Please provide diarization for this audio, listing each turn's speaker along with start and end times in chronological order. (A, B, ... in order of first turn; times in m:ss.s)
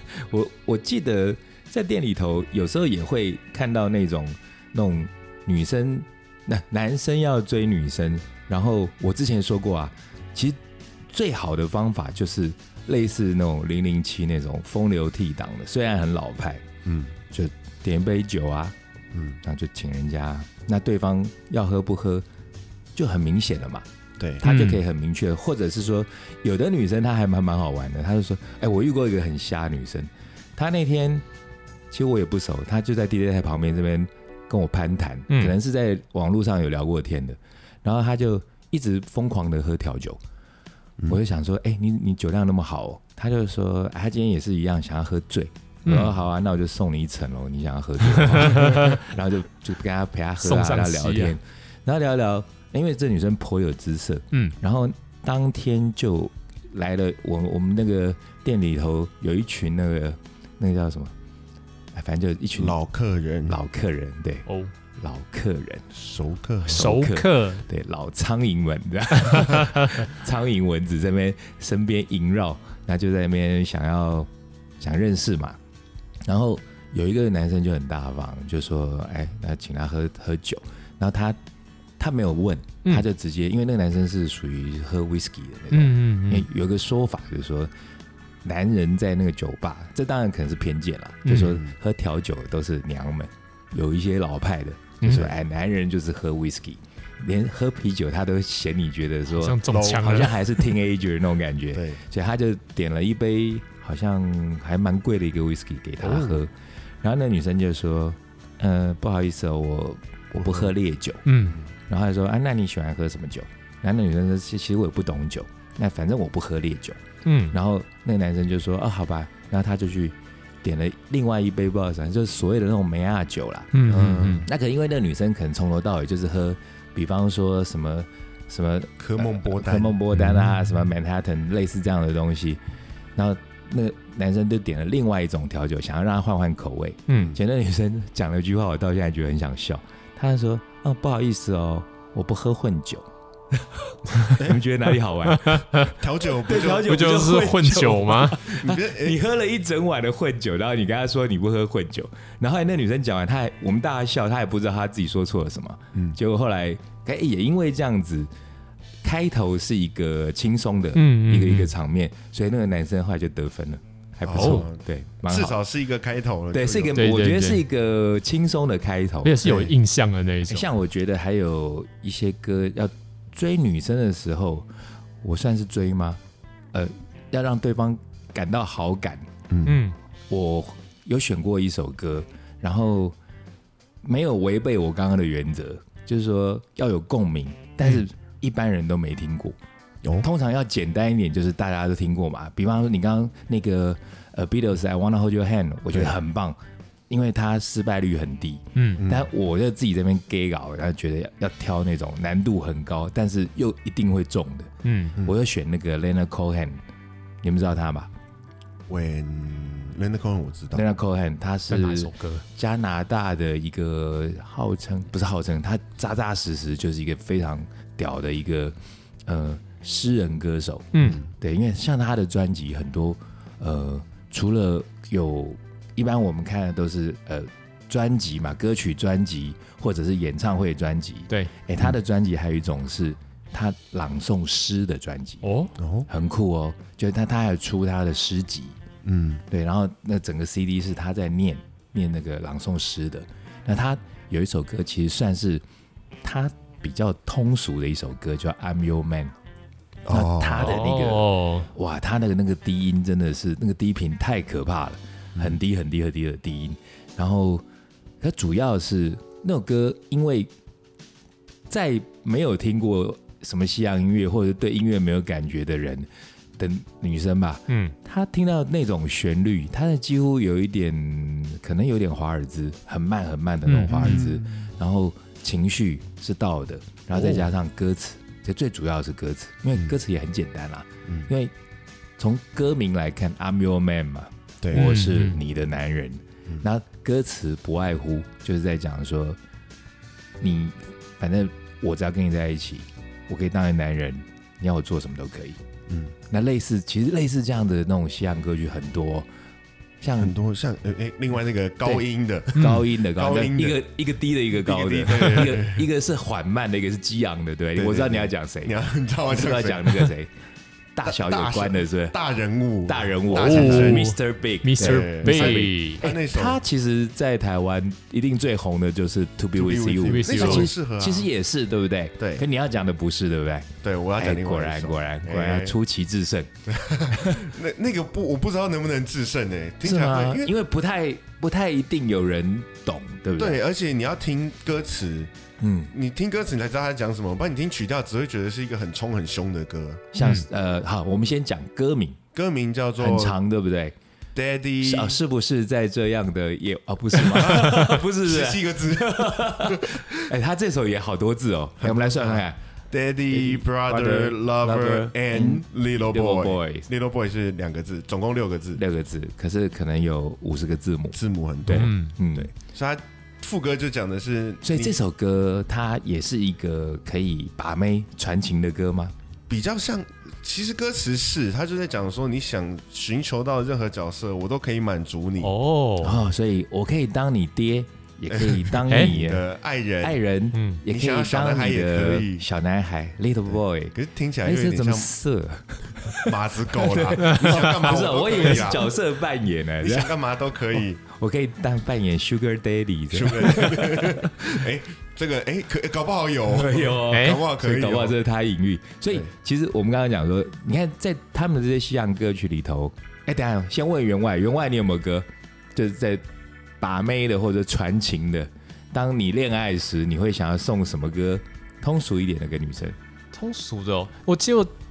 0:00.2-0:16.6 A
0:16.8-0:17.1 B
0:17.3-0:18.8 A
0:19.1-0:19.4 B
0:19.4-0:22.2 A
0:22.9-0:23.8 A
0:24.2-0:24.4 B
0:24.4-0:31.2 A
0:24.4-0:24.8 C
0:31.9-0:40.2 A
0:35.3-0:35.5 C
0:41.1-1:01.1 A
0:45.8-0:46.1 C
0:48.1-0:49.0 C
0:50.4-0:51.3 C
1:01.9-1:02.8 A
1:02.6-1:03.6 B
1:03.5-1:04.4 A
1:05.0-1:05.8 A
1:05.9-1:06.9 B
1:06.7-1:15.6 A
1:06.7-1:07.6 C
1:09.3-1:10.0 C
1:16.2-1:21.4 A
1:22.0-1:27.7 A
1:25.7-1:26.5 C
1:28.4-1:51.2 A
1:31.2-1:31.6 C
1:31.5-1:31.7 B
1:35.0-1:35.3 C
1:35.0-1:35.3 B
1:39.3-1:40.4 C
1:39.7-1:40.1 B
1:41.7-1:42.0 B
1:46.0-1:46.3 B
1:50.3-1:50.7 B
1:51.2-1:51.6 C
1:51.9-2:12.6 A
1:57.2-1:57.6 C
2:03.7-2:04.4 C
2:03.9-2:04.5 B
2:09.0-2:10.0 B
2:13.1-2:25.8 A
2:17.1-2:17.3 C
2:25.2-2:25.9 C
2:25.9-2:27.0 B
2:26.4-2:38.3 A
2:26.8-2:28.4 C
2:28.4-2:29.2 B
2:39.0-2:45.6 A
2:40.9-2:41.7 C
2:44.2-2:47.0 B
2:44.4-2:44.6 C
2:46.5-2:49.6 A
2:46.9-2:47.6 C
2:49.2-2:50.7 C
2:49.4-2:49.7 B
2:50.5-2:54.7 A
2:55.2-2:56.2 A
2:56.7-2:59.3 A
2:59.5-2:59.8 B
2:59.6-3:00.0 C
3:00.3-3:03.2 A
3:04.0-3:09.6 A
3:10.2-3:16.6 A
3:17.1-3:26.8 A
3:18.8-3:19.0 C
3:19.0-3:19.3 B
3:24.8-3:25.2 C
3:27.4-3:28.1 A
3:28.9-3:30.8 B
3:30.7-3:55.4 A
3:31.7-3:32.4 C
3:40.9-3:41.2 C
3:41.0-3:41.3 B
3:55.4-3:55.7 C
3:55.8-3:56.1 B
3:56.1-3:58.8 A
3:59.0-3:59.4 B
3:59.5-4:05.6 A
4:06.2-4:09.3 A
4:10.0-4:10.8 B
4:10.1-4:17.6 A
4:10.6-4:11.7 C
4:18.2-4:20.5 A
4:21.7-4:41.5 A
4:27.7-4:27.9 C
4:33.6-4:34.2 C
4:33.9-4:34.6 B
4:37.1-4:37.5 B
4:42.2-4:49.4 A
4:44.6-4:44.9 B
4:44.7-4:45.4 C
4:50.4-4:55.6 A
4:55.9-4:56.1 B
4:56.3-4:59.3 A
5:00.0-5:00.3 A
5:00.2-5:03.8 B
5:02.5-5:10.3 A
5:02.6-5:02.8 C
5:04.6-5:05.8 B
5:07.8-5:10.1 B
5:10.9-5:12.1 A
5:11.0-5:14.1 B
5:12.8-5:26.5 A
5:13.4-5:16.0 C
5:14.8-5:16.6 B
5:19.5-5:21.3 B
5:20.0-5:20.7 C
5:22.2-5:22.4 B
5:23.8-5:25.8 B
5:26.7-5:30.5 B
5:27.1-5:27.5 A
5:29.8-5:33.6 A
5:33.4-5:35.3 B
5:35.6-5:35.9 A
5:35.9-5:40.0 B
5:40.1-5:42.2 A
5:40.2-5:40.4 C
5:42.3-5:43.4 B
5:43.0-5:44.0 A
5:44.3-5:45.2 B
5:44.8-5:52.6 A
5:47.3-5:50.2 B
5:47.6-5:47.9 C
5:51.8-5:58.8 B
5:53.3-5:56.9 A
5:58.7-6:02.5 A
6:01.1-6:05.0 B
6:01.7-6:02.1 C
6:04.6-6:09.1 A
6:09.5-6:15.5 B
6:15.4-6:16.2 C
6:16.0-6:19.4 A
6:18.3-6:20.2 B
6:18.9-6:19.1 C
6:20.0-6:30.1 A
6:20.5-6:20.8 C
6:20.9-6:22.4 B
6:23.9-6:25.1 B
6:26.2-6:28.9 B
6:27.2-6:27.7 C
6:29.8-6:31.0 B
6:31.0-6:34.6 A
6:33.1-6:38.2 B
6:36.5-6:46.2 A
6:37.1-6:37.4 C
6:46.8-6:53.0 A
6:53.3-6:54.7 C